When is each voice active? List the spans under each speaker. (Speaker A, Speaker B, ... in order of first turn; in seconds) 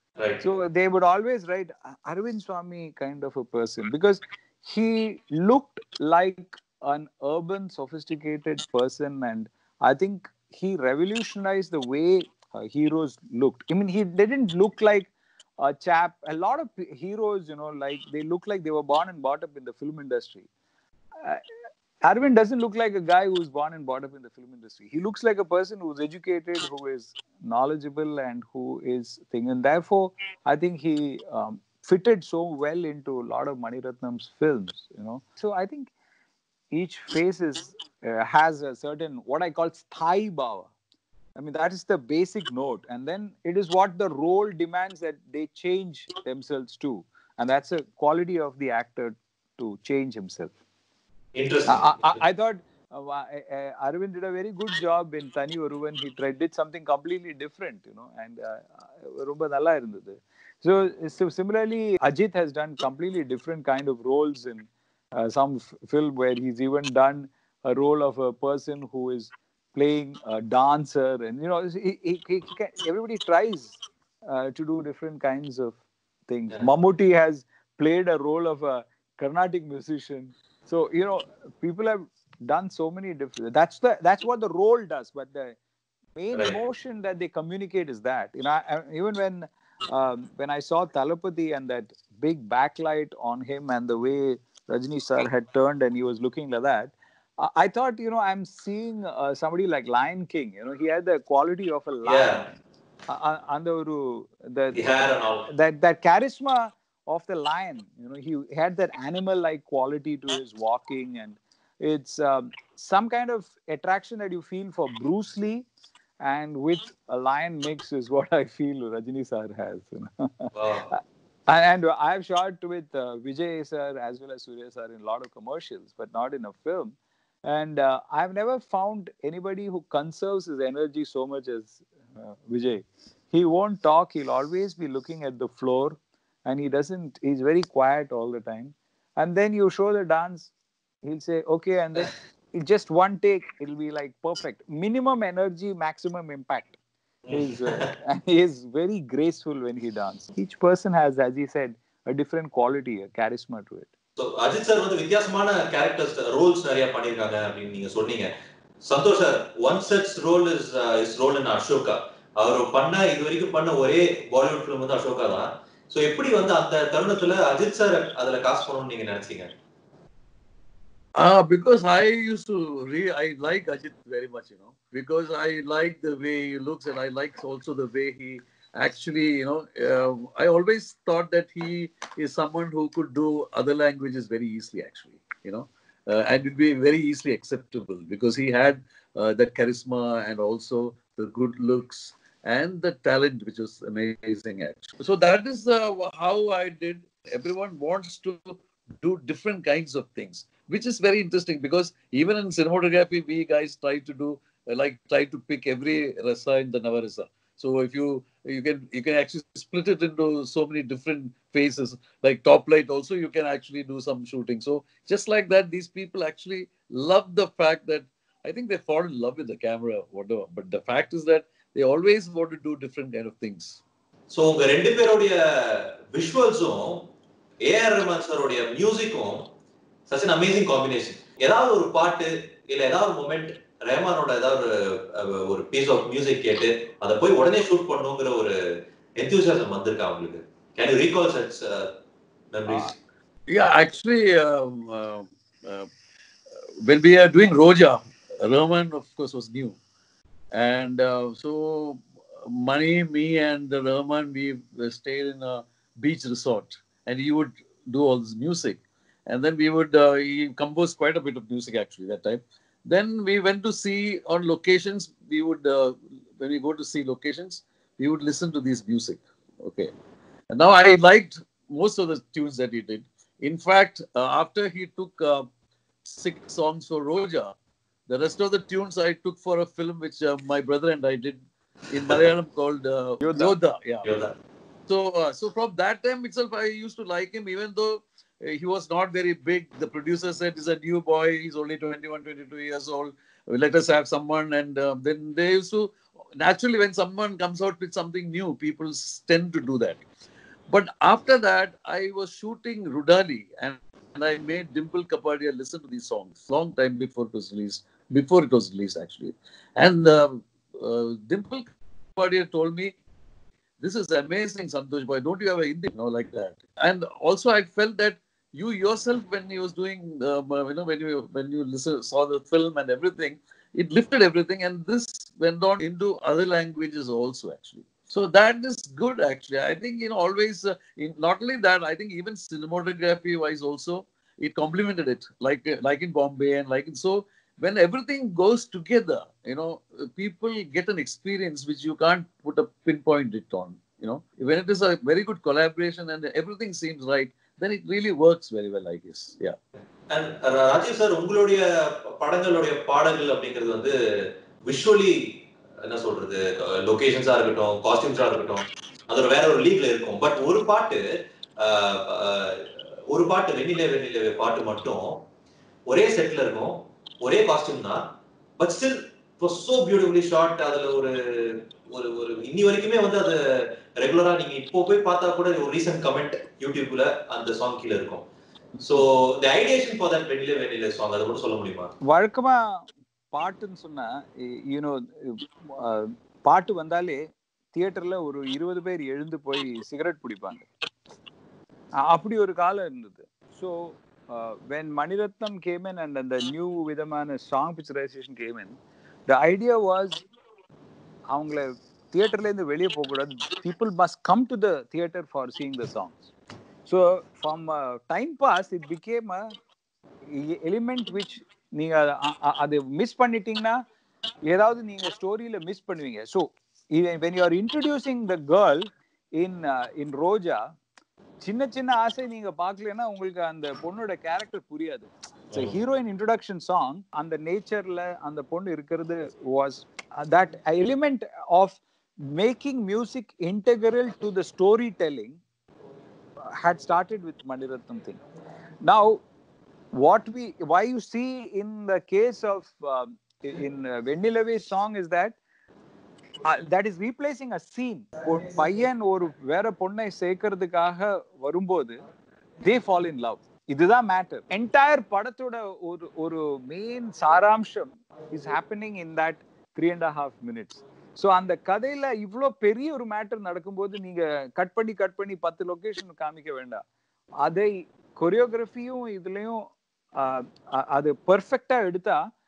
Speaker A: 0.2-0.4, 51.3-52.2, 102.0-102.4, 104.7-105.5, 120.5-120.9, 147.2-147.9, 154.2-169.5, 224.3-227.1, 227.6-229.5, 230.1-238.6, 239.2-241.9, 242.5-242.9, 284.0-284.3, 350.1-365.3, 365.9-378.2, 378.8-381.9, 425.5-425.8
Speaker B: 0.4-20.5, 22.0-35.9, 36.7-40.7, 41.4-50.5, 51.7-75.8, 76.3-85.5, 86.1-102.5, 103.1-115.7, 116.2-126.9, 127.5-140.5, 141.0-146.8, 147.3-153.9, 283.2-283.5, 382.1-382.8, 383.3-387.2, 387.7-390.7, 392.1-398.8, 399.3-400.2, 401.3-406.3, 406.9-409.5, 410.3-413.8, 414.4-420.6, 421.4-435.4, 436.5-438.2, 438.8-439.2, 439.9-445.4, 446.4-452.0, 452.6-466.8, 467.4-472.2
Speaker C: 171.2-223.8, 243.5-245.9, 246.8-249.8, 250.5-269.9, 270.5-275.5, 276.0-277.5, 278.1-284.1, 284.9-300.0, 300.7-312.9, 313.8-349.6